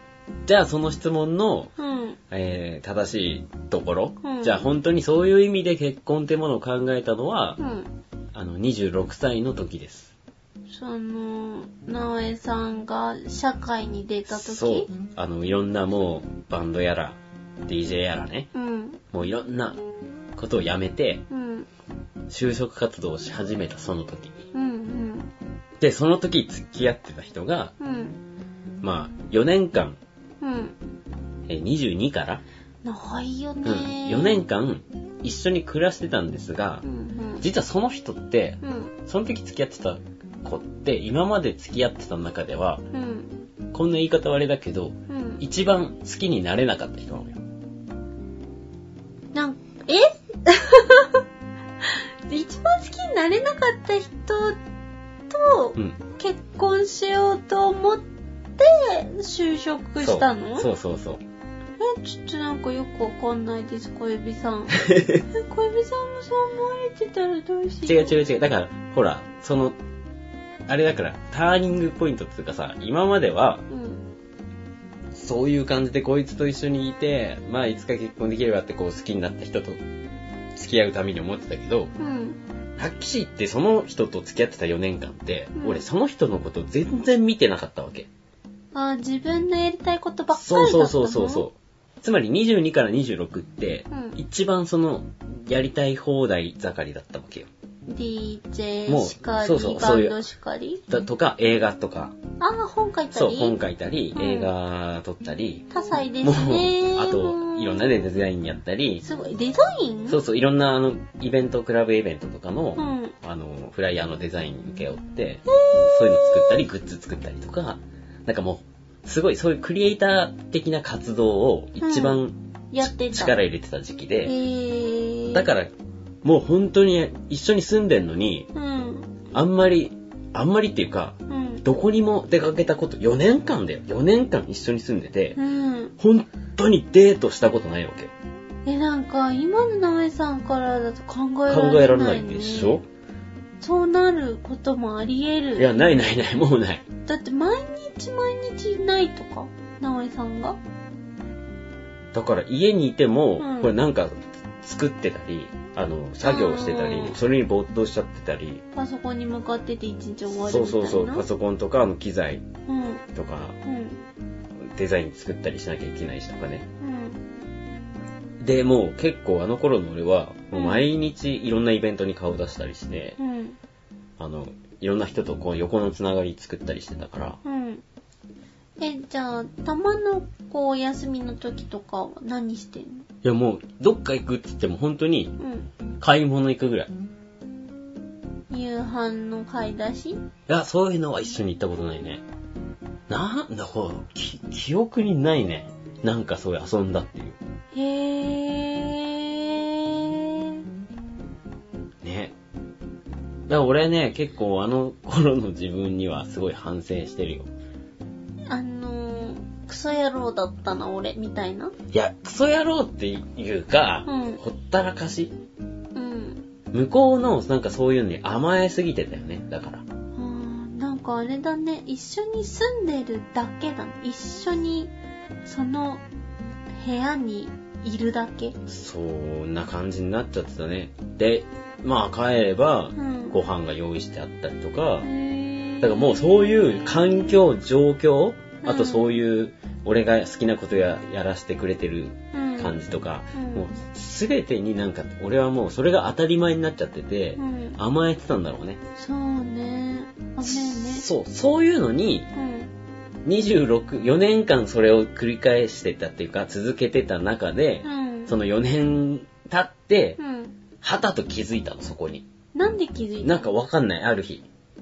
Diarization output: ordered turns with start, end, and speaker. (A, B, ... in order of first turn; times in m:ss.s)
0:00.5-0:01.7 A
0:01.8-0:02.2 B
0:02.3-0:07.6 A
0:04.2-0:04.6 B
0:07.6-0:07.9 B
0:08.3-0:10.1 A
0:10.7-0:14.9 B
0:14.3-0:18.5 A
0:18.5-0:19.0 B
0:19.1-0:19.8 A
0:20.4-0:21.2 A
0:21.3-0:21.7 B
0:22.3-0:24.4 A
0:24.5-0:25.3 B
0:25.8-0:27.7 A
0:27.8-0:28.2 B
0:28.8-0:30.0 A
0:30.4-0:30.8 B
0:31.5-0:32.4 A
0:32.8-0:34.4 B
0:33.6-0:36.8 A
0:36.8-0:37.4 B
0:37.4-0:42.8 A
0:38.6-0:38.9 B
0:42.9-0:43.4 B
0:43.7-0:47.4 A
0:45.1-0:45.4 B
0:49.3-0:51.2 B
0:51.8-0:54.6 B
0:55.3-0:58.0 B
0:58.6-1:00.7 B
1:00.0-1:01.2 A
1:01.8-1:08.2 B
1:04.8-1:05.2 A
1:07.8-1:09.8 A
1:10.7-1:13.6 A
1:13.7-1:14.0 B
1:15.1-1:19.8 A
1:20.6-1:21.9 A
1:22.0-1:22.4 B
1:22.8-1:28.1 A
1:25.6-1:25.8 B
1:28.7-1:31.5 B
1:30.3-1:37.5 A
1:33.9-1:34.2 B
1:37.9-1:40.8 B
1:38.9-1:40.2 A
1:40.9-1:42.2 A
1:42.4-1:43.6 B
1:43.1-1:49.0 A
1:44.2-1:44.5 B
1:45.7-1:48.0 B
1:49.0-1:50.2 B
1:50.1-2:04.3 A
1:52.8-1:53.2 B
1:55.5-1:56.6 B
2:01.8-2:02.2 B
2:02.7-2:03.4 B
2:04.2-2:05.5 B
2:05.3-2:05.7 A
2:06.2-2:08.5 A
2:08.5-2:09.2 B
2:09.3-2:15.4 A
2:11.3-2:11.6 B
2:15.4-2:15.9 B
2:16.0-2:18.1 A
2:18.6-2:22.8 B
2:21.5-2:22.8 A
2:23.6-2:26.0 B
2:25.6-2:26.8 A
2:27.1-2:30.6 B
2:32.1-2:38.6 A
2:33.4-2:33.7 B
2:36.2-2:37.2 B
2:38.7-2:41.3 B
2:40.3-2:42.4 A
2:42.7-2:43.0 B
2:43.1-2:43.6 A
2:43.6-2:44.0 B
2:44.7-2:46.7 A
2:46.8-2:47.2 B
2:48.4-2:53.2 A
2:50.5-2:50.9 B
2:53.2-2:53.6 B
2:54.2-2:57.4 A
2:57.4-2:57.8 B
2:58.8-3:03.0 B
3:03.2-3:05.4 A
3:05.4-3:05.7 B
3:06.0-3:06.9 A
3:08.5-3:10.2 B
3:10.5-3:12.2 A
3:13.1-3:17.4 A
3:17.7-3:20.6 B
3:22.0-3:22.4 A
3:23.5-3:27.5 A
3:28.5-3:31.7 B
3:31.9-3:35.3 A
3:34.1-3:34.4 B
3:36.0-3:36.4 B
3:36.7-3:39.8 A
3:40.2-3:44.9 B
3:45.4-3:46.0 B
3:46.8-3:48.6 B
3:48.7-3:55.1 A
3:53.0-3:53.4 B
3:55.0-3:57.4 B
3:55.8-4:08.8 A
3:58.6-3:59.2 B
4:02.3-4:02.8 B
4:03.3-4:03.7 B
4:07.4-4:07.8 B
4:09.0-4:11.1 B
4:10.4-4:12.3 A
4:12.4-4:12.7 B
4:13.2-4:20.2 A
4:17.8-4:18.3 B
4:20.2-4:20.6 B
4:20.8-4:22.2 A
4:22.6-4:23.5 B
4:23.2-4:24.4 A